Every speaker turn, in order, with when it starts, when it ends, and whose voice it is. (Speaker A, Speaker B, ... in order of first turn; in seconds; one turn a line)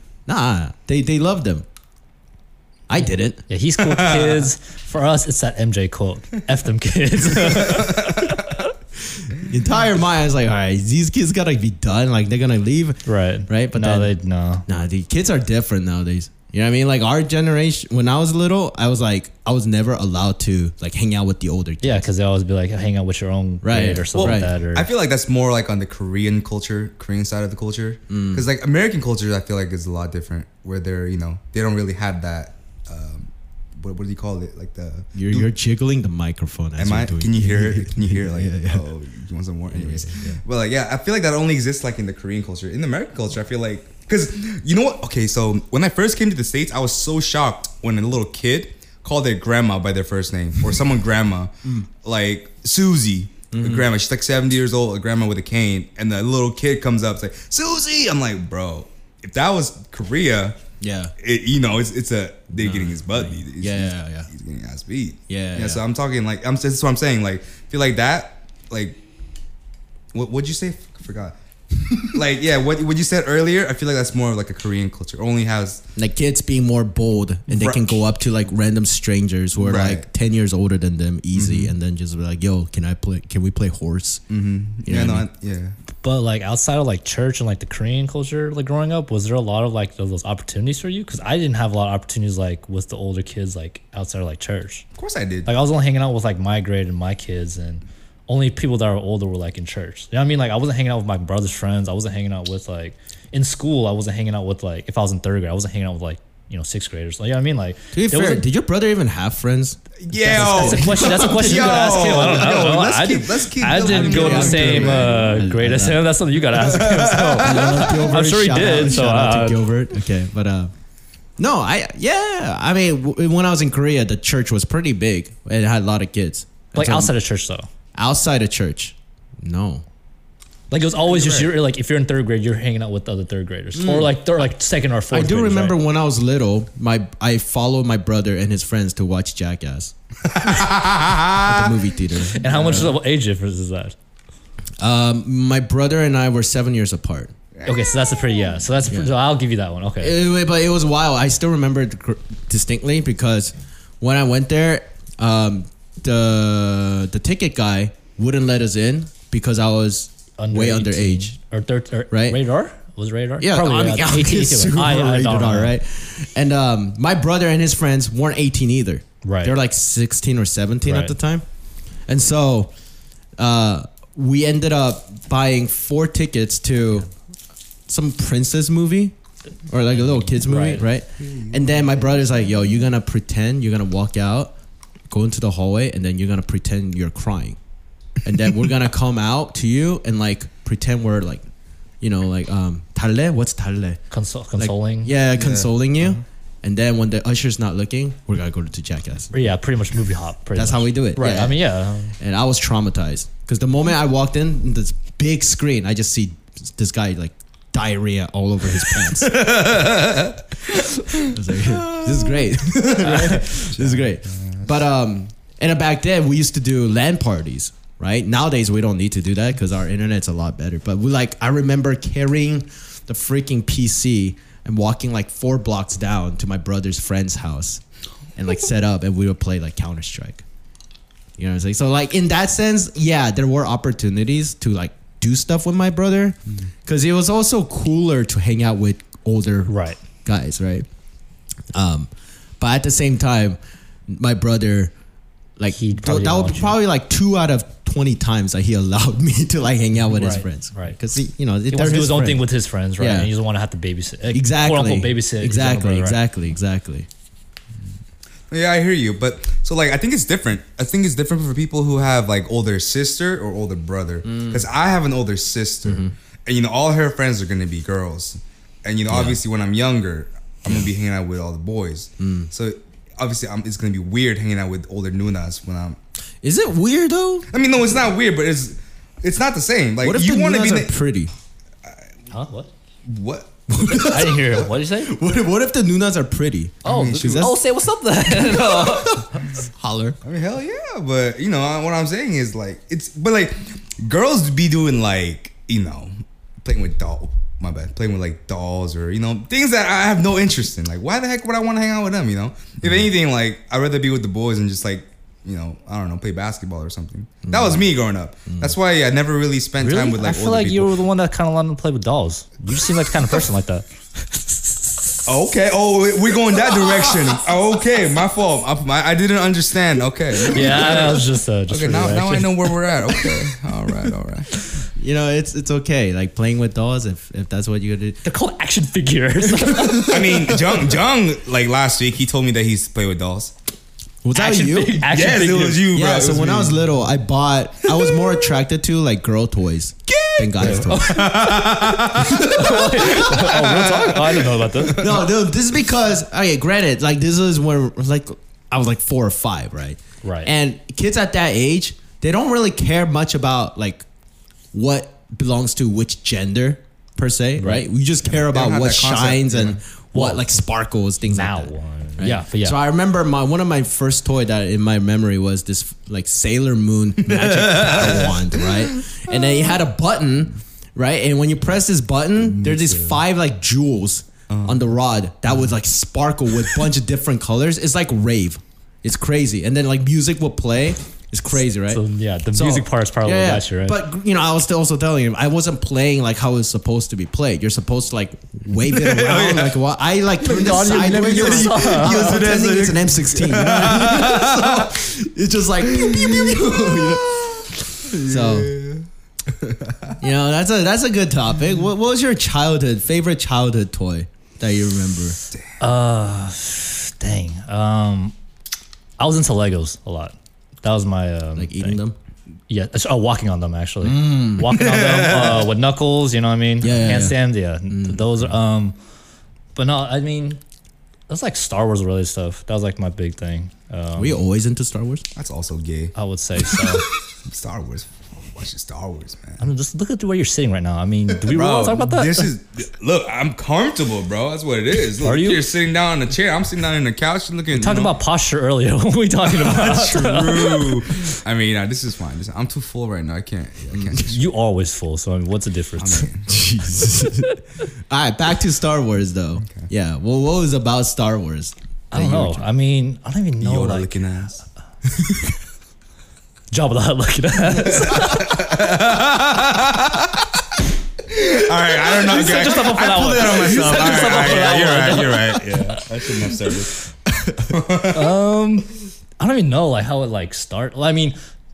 Speaker A: 0.2-1.6
Speaker A: 2.9-3.4
Speaker B: 3.5-8.7
Speaker C: 3.8-4.5
Speaker C: 7.7-8.1
Speaker A: 9.2-14.1
Speaker B: 13.1-14.6
Speaker A: 14.7-22.1
Speaker B: 21.8-24.9
Speaker A: 23.6-24.5
Speaker C: 24.1-35.5
Speaker A: 28.1-28.4
Speaker A: 35.1-38.9
Speaker C: 36.8-60.6
Speaker A: 39.7-40.4
Speaker A: 53.5-53.9
Speaker A: 60.8-61.1
Speaker C: 61.2-69.0
Speaker A: 62.5-64.3
Speaker A: 65.3-65.8
Speaker C: 70.1-75.8
Speaker A: 76.0-84.2
Speaker C: 77.5-78.0
Speaker C: 79.6-80.0
Speaker C: 81.3-81.7
Speaker C: 84.3-85.7
Speaker A: 84.8-85.2
Speaker B: 86.0-94.8
Speaker C: 95.0-95.5
Speaker B: 95.4-108.4
Speaker A: 107.9-112.3
Speaker C: 110.1-115.3
Speaker B: 110.3-119.6
Speaker A: 113.7-116.1
Speaker C: 116.5-118.1
Speaker A: 117.4-120.7
Speaker A: 121.4-127.1
Speaker B: 126.7-127.7
Speaker A: 127.9-129.8
Speaker B: 130.7-135.8
Speaker C: 131.1-131.5
Speaker A: 133.7-134.1
Speaker A: 135.1-140.7
Speaker C: 140.3-141.7
Speaker A: 141.3-142.9
Speaker B: 142.3-143.9
Speaker A: 144.8-147.3
Speaker C: 147.6-148.4
Speaker B: 147.7-150.2
Speaker A: 150.0-161.3
Speaker B: 160.4-165.7
Speaker A: 162.1-162.4
Speaker A: 163.4-171.4
Speaker B: 169.2-169.5
Speaker B: 170.8-171.1
Speaker A: 172.1-172.7
Speaker A: 173.4-177.1
Speaker A: 177.9-179.1
Speaker A: 179.7-184.5
Speaker B: 180.3-180.8
Speaker C: 181.3-181.8
Speaker A: 185.1-187.6
Speaker A: 188.2-191.4
Speaker A: 192.0-194.0
Speaker B: 194.1-195.1
Speaker A: 194.6-199.5
Speaker C: 195.3-196.2
Speaker B: 199.3-202.1
Speaker A: 200.5-201.6
Speaker A: 202.2-209.8
Speaker C: 209.2-212.5
Speaker A: 211.2-227.8
Speaker B: 213.1-213.4
Speaker C: 213.3-214.7
Speaker A: 228.3-230.4
Speaker A: 231.4-240.9
Speaker B: 239.7-240.0
Speaker A: 241.7-244.9
Speaker A: 245.6-252.5
Speaker B: 245.7-246.8
Speaker B: 250.2-251.0
Speaker B: 251.7-256.2
Speaker A: 253.0-253.3
Speaker A: 254.3-257.1
Speaker C: 258.5-276.0
Speaker A: 264.3-264.6
Speaker A: 265.8-266.1
Speaker A: 269.1-269.4
Speaker A: 272.2-272.5
Speaker A: 276.4-277.5
Speaker C: 277.5-280.9
Speaker A: 280.0-281.3
Speaker B: 282.3-282.7
Speaker C: 283.1-284.1
Speaker A: 283.7-287.5
Speaker B: 283.9-285.1
Speaker B: 286.8-289.6
Speaker C: 286.8-287.5
Speaker A: 288.3-290.2
Speaker C: 290.2-296.1
Speaker C: 296.6-311.0
Speaker A: 307.5-307.9
Speaker A: 308.5-308.7
Speaker B: 309.8-315.3
Speaker C: 315.2-324.5
Speaker B: 320.5-322.7
Speaker A: 324.9-328.2
Speaker B: 328.2-330.5
Speaker A: 329.6-330.6
Speaker C: 329.9-333.5
Speaker A: 334.2-335.0
Speaker B: 334.3-335.9
Speaker C: 335.1-336.8
Speaker A: 335.9-341.5
Speaker C: 338.0-338.3
Speaker C: 340.1-345.2
Speaker B: 340.6-345.2
Speaker A: 342.2-343.2
Speaker A: 344.9-354.1
Speaker B: 350.2-350.5
Speaker A: 354.7-382.0
Speaker B: 357.6-357.9
Speaker C: 358.3-359.8
Speaker B: 360.1-360.6
Speaker B: 361.2-362.8
Speaker C: 367.3-368.9
Speaker C: 372.6-373.1
Speaker C: 374.5-374.9
Speaker B: 381.9-384.0
Speaker A: 382.5-397.4
Speaker C: 388.9-389.8
Speaker B: 390.4-392.4
Speaker C: 390.5-394.9
Speaker C: 395.9-399.0
Speaker A: 398.1-398.7
Speaker C: 399.6-400.2
Speaker A: 400.2-405.4
Speaker B: 405.8-408.3
Speaker B: 409.2-412.0
Speaker A: 411.6-412.1
Speaker B: 412.7-418.9
Speaker A: 414.0-414.7
Speaker C: 414.7-415.7
Speaker A: 416.8-418.5
Speaker B: 419.7-420.6
Speaker B: 421.3-424.4
Speaker A: 424.2-425.2
Speaker C: 425.4-426.1
Speaker B: 426.1-427.1
Speaker C: 427.4-429.6
Speaker B: 429.6-432.5
Speaker C: 431.4-438.1
Speaker B: 435.2-435.6
Speaker B: 437.7-441.4
Speaker C: 439.5-444.4
Speaker B: 444.2-446.3
Speaker C: 446.0-446.8
Speaker A: 446.5-447.6
Speaker B: 447.1-447.6
Speaker A: 448.1-452.6
Speaker B: 452.1-454.2
Speaker C: 453.6-454.6
Speaker B: 456.7-458.5
Speaker C: 457.8-460.4
Speaker C: 461.3-466.9
Speaker B: 462.1-466.3
Speaker C: 467.7-468.3
Speaker B: 468.0-471.4